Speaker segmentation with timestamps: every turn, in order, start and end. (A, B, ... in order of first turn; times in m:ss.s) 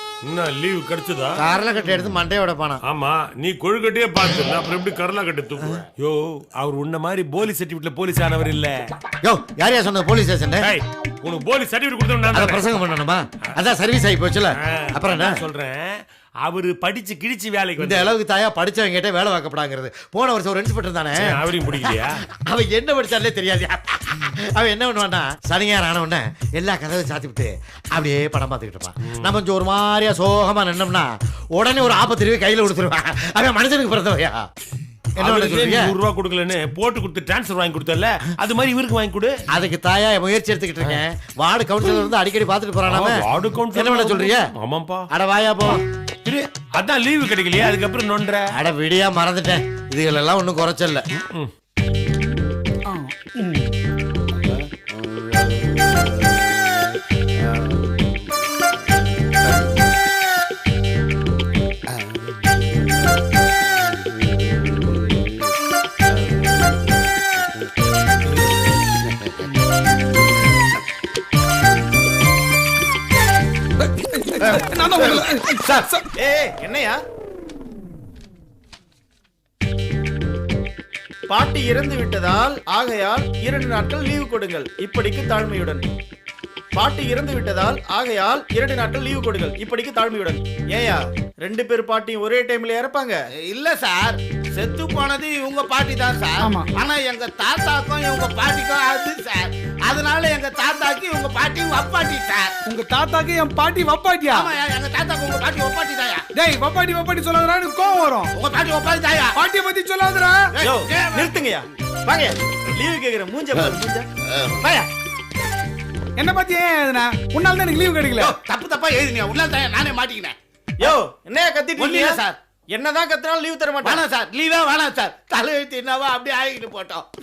0:00.2-0:01.4 A
0:01.4-0:02.8 B
0:02.9-0:08.7 A
0:09.2-0:10.7 B
0:10.6-0:12.6 A
0:12.3-0:15.4 B
0:14.6-0:18.1 A
0:17.8-0:34.4 B
0:21.2-0:22.2 A
0:35.2-0:35.9 B
0:35.2-0:39.3 A
0:39.5-0:44.4 B
0:42.8-0:45.0 A
0:45.1-0:45.8 B
0:46.2-0:48.4 A
0:48.5-0:51.0 B
0:54.4-0:56.8 C
0:57.4-0:58.2 C
0:59.0-0:59.8 C
1:04.3-1:05.2 C
1:14.5-1:15.9 D
1:16.2-1:17.0 E
1:21.3-1:25.9 E
1:26.7-1:33.2 E
1:33.4-1:42.5 C
1:42.7-1:44.5 D
1:44.3-1:46.2 C
1:46.3-1:48.3 D
1:48.4-1:49.4 C
1:49.4-1:50.5 D
1:50.5-1:51.4 C
1:50.6-1:54.0 E
1:54.3-1:54.8 C
1:56.2-1:58.3 D
1:58.2-2:01.0 C
2:00.8-2:04.0 E
2:01.8-2:02.4 C
2:03.8-2:07.0 C